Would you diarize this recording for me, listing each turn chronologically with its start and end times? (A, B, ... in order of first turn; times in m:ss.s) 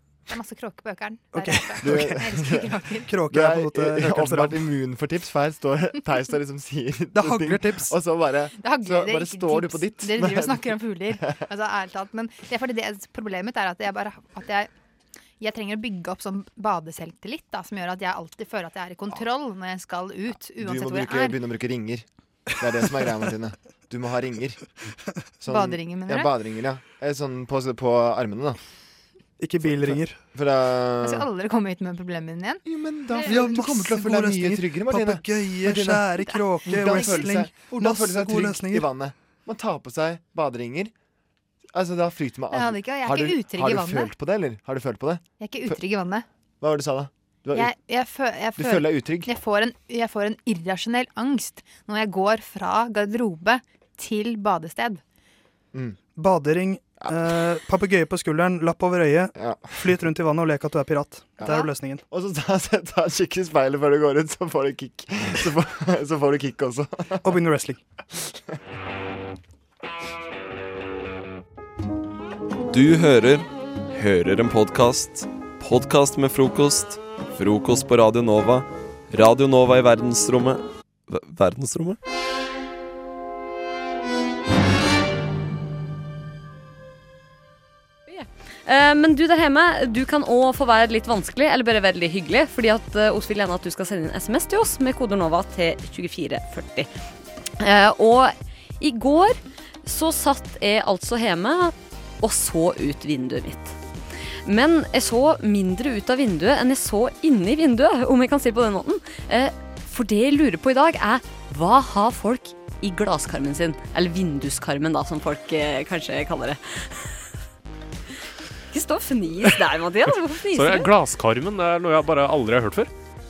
0:00.3-0:03.2 A
0:01.3-0:02.2 B
0:01.8-0:02.7 C
0:03.0-0:04.6 B
0:03.3-0:11.4 C
0:07.1-0:07.9 B
0:08.5-0:14.7 A
0:15.4-0:21.4 A
0:20.6-0:22.0 C
0:22.6-0:24.6 C
0:25.4-0:28.6 C
0:25.5-0:26.3 A
0:29.4-0:30.2 B
0:29.6-0:31.2 C
0:31.0-0:33.6 A
0:32.6-0:40.9 C
0:33.2-0:38.9 B
0:36.8-0:37.4 A
0:41.7-0:45.8 C
0:42.5-0:44.1 A
0:45.4-0:46.2 A
0:46.6-0:47.7 C
0:47.5-0:55.0 A
0:48.6-0:49.3 C
0:56.2-1:02.0 B
0:59.4-0:59.8 C
1:01.4-1:07.2 C
1:07.2-1:07.8 B
1:08.1-1:08.5 C
1:12.7-1:22.0 D
1:28.1-1:36.9 E
1:37.6-1:43.8 E
1:44.4-1:57.3 E
1:58.7-2:00.9 E
2:00.5-2:02.9 F